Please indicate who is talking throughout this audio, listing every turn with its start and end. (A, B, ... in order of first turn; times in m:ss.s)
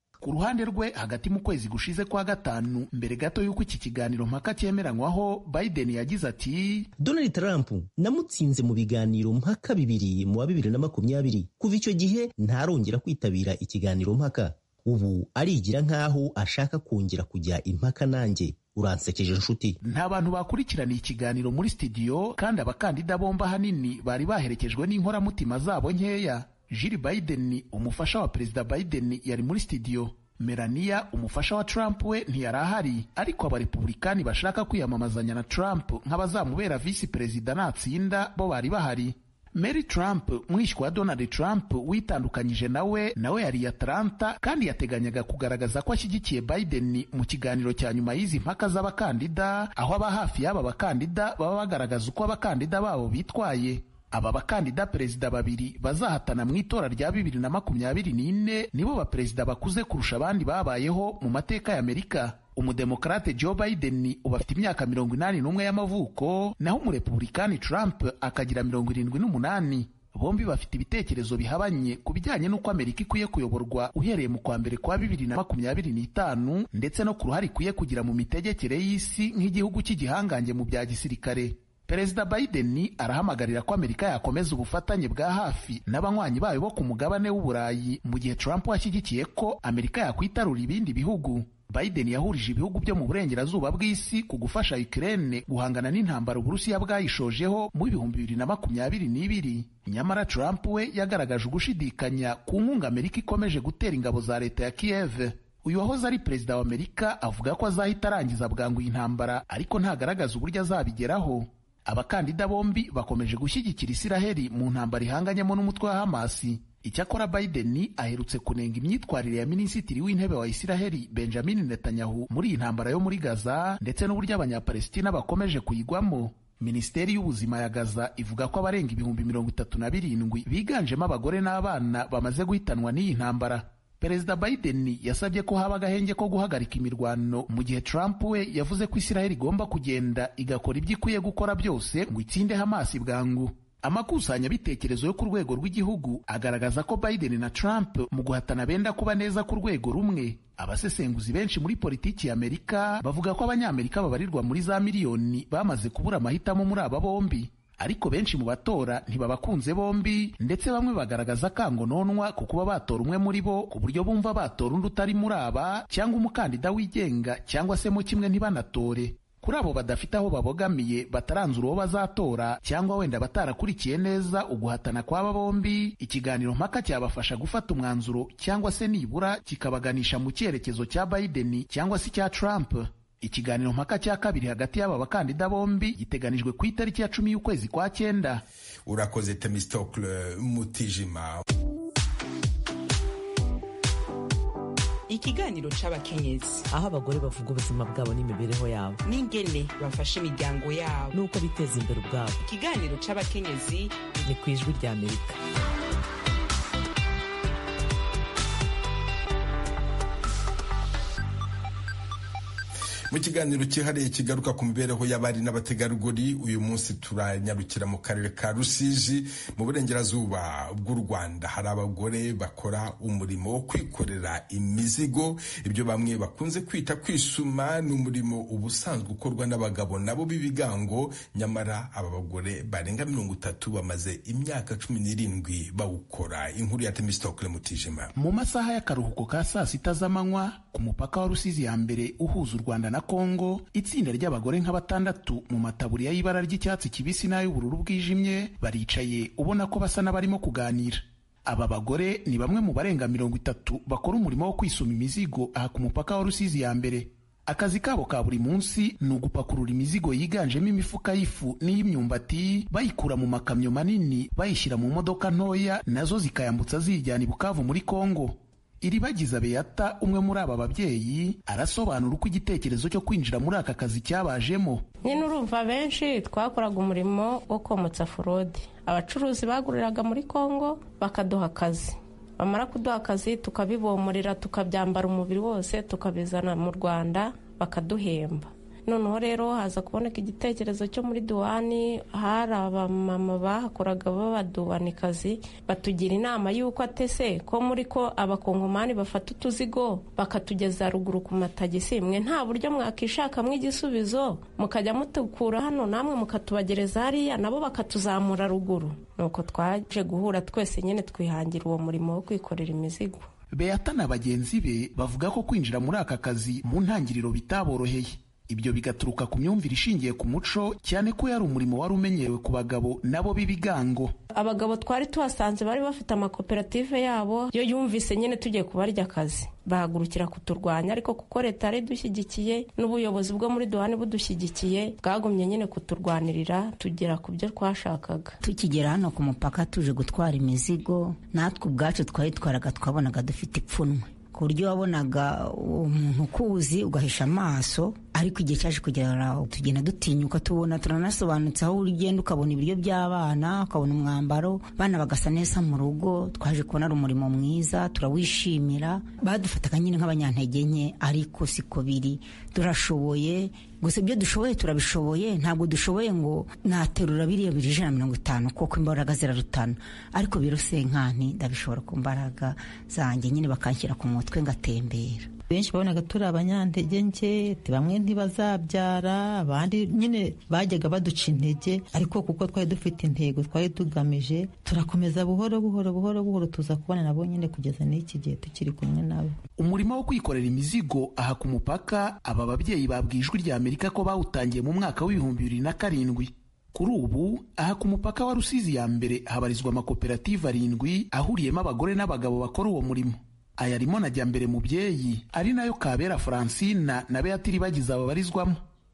0:00.2-0:06.9 A
0:07.0-0:19.8 B
0:19.8-3:08.4 A
3:08.9-3:11.4 C
3:15.1-3:16.7 D
3:16.7-3:19.0 E
3:19.0-3:21.2 D
3:21.1-3:22.4 E
3:22.4-3:24.2 D
3:24.2-3:25.4 E
3:33.1-3:58.1 C
3:58.2-4:34.8 A
4:35.0-5:13.3 F
5:13.5-5:24.1 A
5:24.3-5:38.4 F
5:38.4-6:15.3 G
6:15.5-6:29.4 H
6:29.6-6:48.6 A